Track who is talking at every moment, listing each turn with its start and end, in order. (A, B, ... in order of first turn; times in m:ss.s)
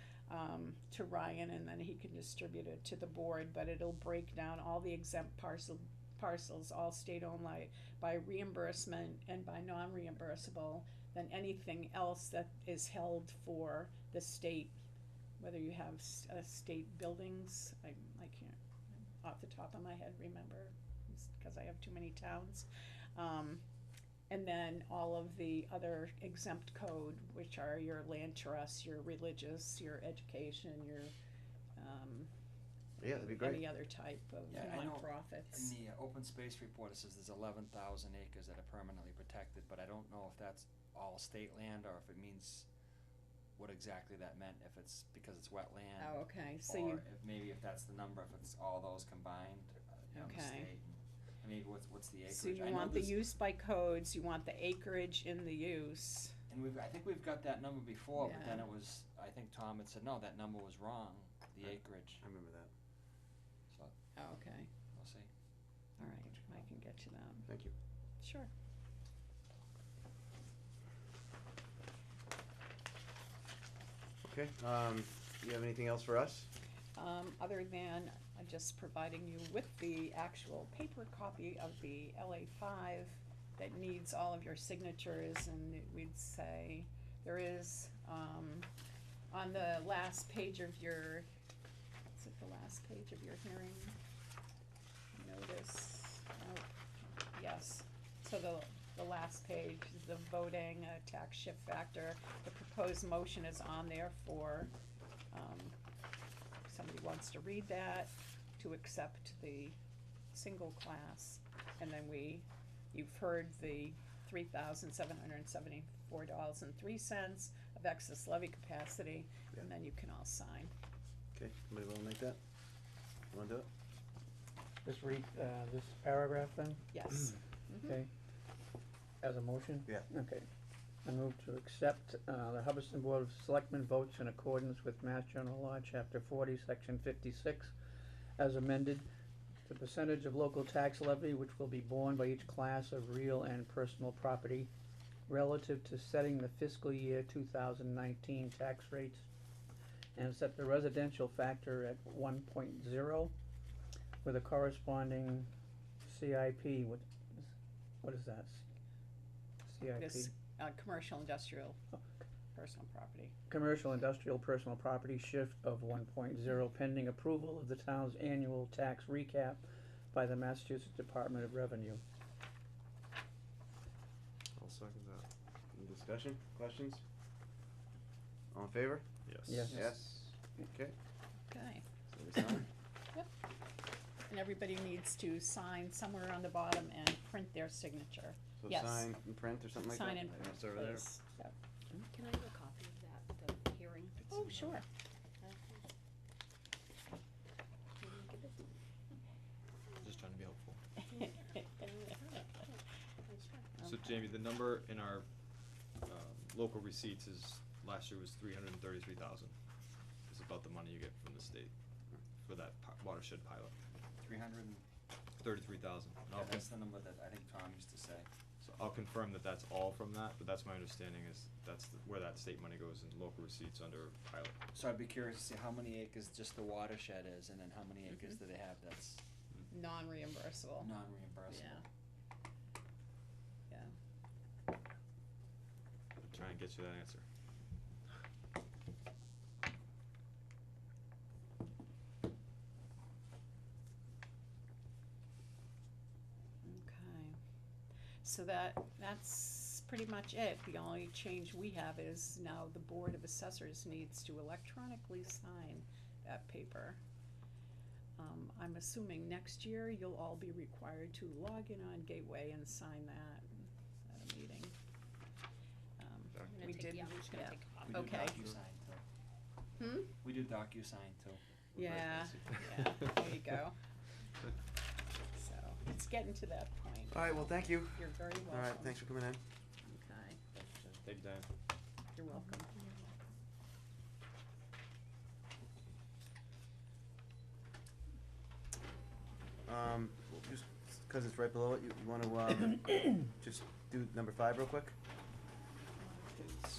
0:00.3-0:14.8 A
0:15.4-0:18.6 A
0:19.2-0:23.6 A
0:24.3-0:31.1 A
0:31.8-0:32.3 A
0:33.0-0:33.6 B
0:33.1-0:35.8 A
0:34.5-0:42.7 C
0:43.6-0:53.3 C
0:46.0-0:47.0 A
0:50.1-0:50.7 A
0:52.3-0:56.4 A
0:56.5-1:02.2 C
0:58.2-0:58.6 A
1:01.7-1:02.7 B
1:04.2-1:04.7 A
1:04.9-1:05.3 C
1:06.0-1:07.5 A
1:07.5-1:07.7 B
1:08.2-1:08.5 A
1:14.2-1:16.5 B
1:17.0-1:28.7 A
1:29.3-1:31.3 A
1:32.2-1:34.0 A
1:35.1-1:36.7 A
1:37.3-1:44.7 A
1:45.3-1:45.8 A
1:46.6-1:49.8 A
1:50.3-2:00.7 A
2:01.4-2:02.4 B
2:03.3-2:03.7 B
2:04.8-2:08.1 D
2:06.9-2:07.9 A
2:09.2-2:10.5 D
2:11.0-2:17.8 D
2:18.4-2:19.1 D
2:19.6-2:24.7 D
2:25.3-2:29.3 D
2:30.2-2:33.3 D
2:34.2-2:35.5 D
2:36.0-2:37.5 D
2:38.0-2:38.6 D
2:39.6-2:40.3 D
2:40.0-2:41.8 A
2:42.5-2:43.3 A
2:43.5-2:52.0 D
2:54.6-2:55.3 E
2:55.7-2:57.0 B
2:58.5-2:59.0 B
2:59.3-2:59.9 E
2:59.5-2:59.8 D
2:59.7-3:00.9 B
3:01.5-3:01.8 A
3:02.1-3:02.7 B
3:04.3-3:09.1 A
3:08.6-3:11.0 B
3:09.8-3:11.5 A
3:12.1-3:14.3 F
3:14.3-3:14.8 A
3:15.4-3:15.9 F
3:18.0-3:18.6 F
3:20.0-3:20.8 E
3:21.1-3:23.9 F
3:23.8-3:25.3 E
3:26.0-3:29.5 E
3:30.3-3:31.7 E
3:32.4-3:33.7 E
3:34.2-3:34.8 C
3:35.4-3:36.7 E
3:36.3-3:38.3 C
3:38.6-3:44.6 E
3:44.7-3:49.2 C
3:49.7-3:50.9 A
3:50.8-3:51.8 C
3:51.5-3:51.8 A
3:53.7-3:53.9 A
3:56.2-3:57.2 E
4:06.6-4:07.4 A
4:08.2-4:17.0 A
4:18.2-4:24.7 A
4:26.0-4:28.4 A
4:26.3-4:26.8 E
4:26.4-4:28.4 F
4:27.8-4:29.0 C
4:29.8-4:30.1 A
4:30.2-4:31.4 C
4:31.8-4:33.8 A
4:35.3-4:39.0 A
4:37.1-4:39.4 B
4:39.8-4:40.4 A
4:40.5-4:41.5 E
4:42.1-4:42.9 A
4:49.6-4:55.0 B